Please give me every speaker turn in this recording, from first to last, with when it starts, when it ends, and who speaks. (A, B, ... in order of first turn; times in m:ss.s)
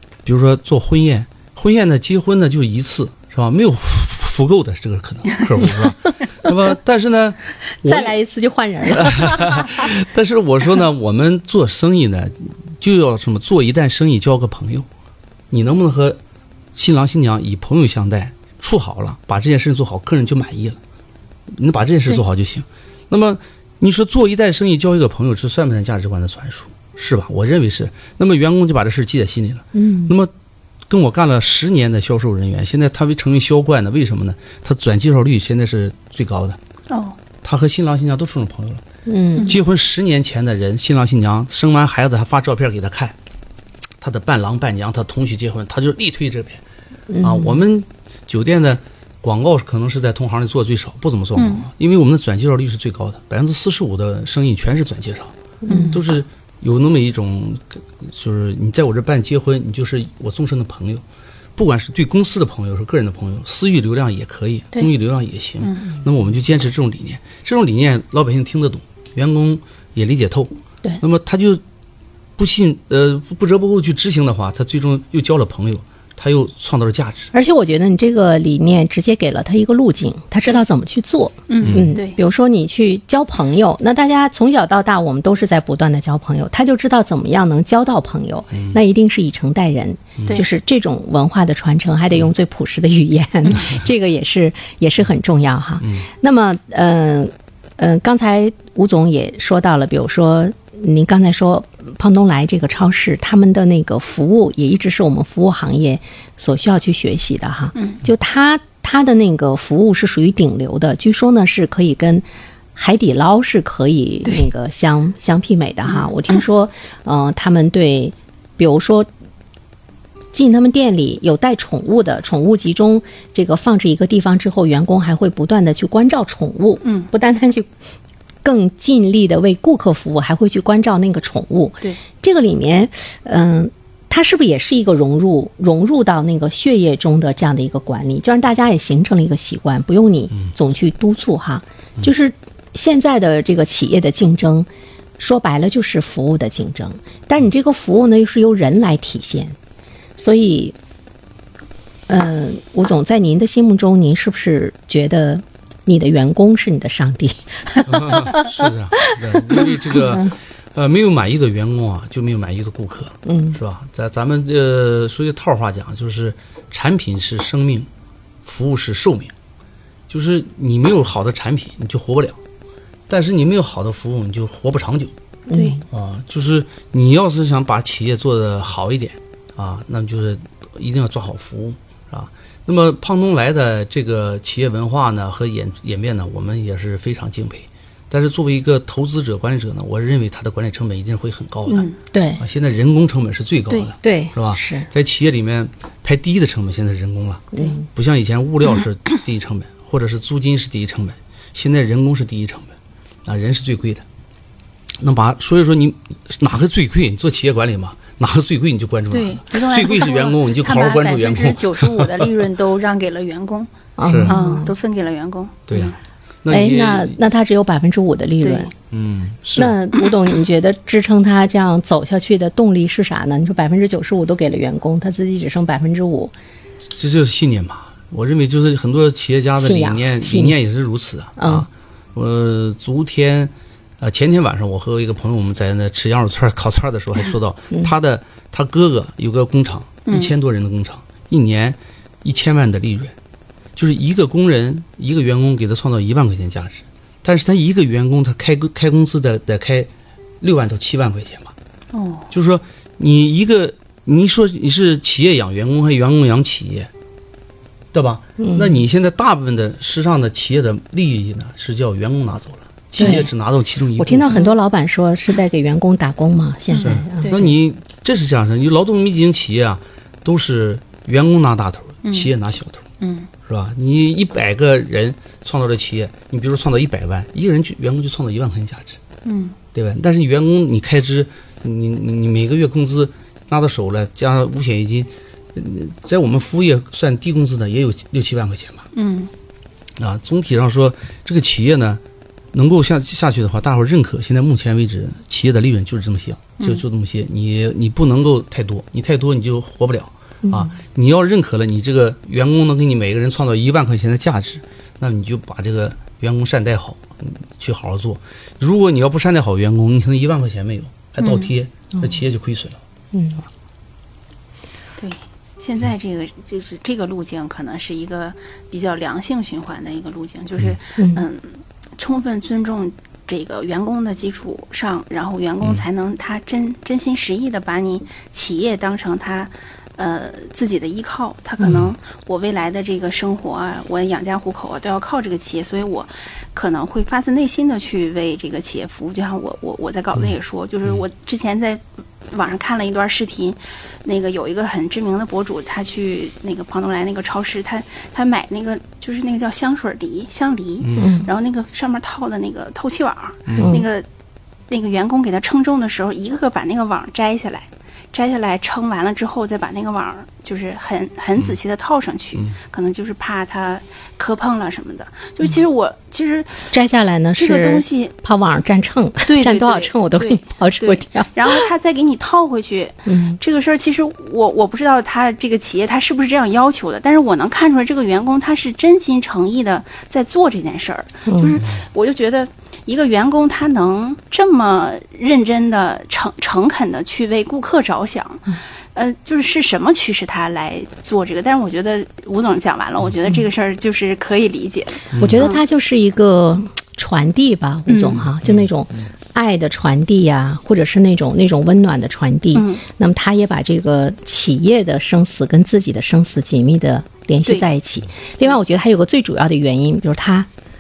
0:00.2-0:08.2 A
0:07.8-0:09.9 B
0:08.9-0:14.9 A
0:15.5-0:16.2 A
0:16.8-0:20.8 A
0:21.5-0:30.3 A
0:29.8-0:30.1 B
0:30.9-0:36.6 A
0:36.9-0:37.2 C
0:37.4-0:38.8 A
0:39.1-0:39.6 B
0:39.5-0:43.2 A
0:44.0-0:46.6 A
0:47.1-0:47.6 B
0:47.2-0:55.3 A
0:51.4-0:51.7 C
0:55.6-0:56.0 B
0:55.7-0:55.9 C
0:55.9-1:01.0 A
1:01.6-1:11.6 A
1:12.4-1:17.3 A
1:17.3-1:59.1 B
1:21.5-1:22.2 C
1:21.6-1:21.9 A
2:00.3-2:07.7 B
2:06.8-2:07.1 C
2:08.4-2:24.7 B
2:25.2-2:29.6 B
2:30.2-2:30.8 B
2:32.1-2:38.5 B
2:37.9-2:47.9 A
2:39.5-2:40.3 B
2:43.3-2:43.6 B
2:48.4-2:49.3 A
2:50.1-2:52.4 A
2:53.1-2:55.1 A
2:55.5-2:55.8 B
2:55.5-2:55.8 C
2:55.9-3:22.7 A
3:11.7-3:11.9 C
3:12.1-3:12.4 B
3:14.0-3:14.9 B
3:17.5-3:17.8 B
3:23.2-3:24.0 A
3:25.0-3:32.3 A
3:29.1-3:33.7 C
3:34.0-3:34.7 B
3:34.0-3:34.4 A
3:34.3-3:36.0 C
3:35.7-3:37.2 A
3:36.5-3:38.7 B
3:38.4-3:38.7 C
3:38.9-3:39.8 A
3:39.5-3:46.3 B
3:46.8-4:03.2 A
3:49.6-3:50.6 B
3:51.4-3:51.7 B
4:00.1-4:00.3 C
4:03.8-4:09.9 A
4:10.4-4:11.5 A
4:11.9-4:12.3 C
4:12.3-4:16.9 A
4:17.9-4:24.4 A
4:18.4-4:18.8 B
4:23.0-4:23.3 B
4:24.0-4:27.5 B
4:24.3-4:24.6 C
4:26.7-4:27.5 C
4:26.8-4:32.8 A
4:32.0-4:32.3 C
4:33.0-4:33.3 C
4:33.4-4:39.0 A
4:39.2-4:39.6 C
4:39.7-4:48.8 A
4:49.0-4:49.3 C
4:50.0-4:52.0 A
4:52.5-5:12.8 A
5:00.4-5:00.7 B
5:11.2-5:11.5 C
5:13.1-5:13.4 B
5:15.0-5:54.1 C
5:21.0-5:21.2 B
5:31.6-5:32.0 A
5:50.8-5:51.1 A
5:51.0-5:51.3 B
5:53.5-5:53.8 A
5:53.6-5:53.8 B
5:54.7-6:06.7 C
6:06.7-6:11.7 B
6:07.4-6:08.1 C
6:09.3-6:35.6 C
6:13.1-6:13.4 B
6:21.3-6:21.6 B
6:35.1-6:35.4 A
6:35.2-6:50.5 B
6:37.9-6:38.2 C
6:38.4-6:38.7 A
6:42.5-6:42.8 C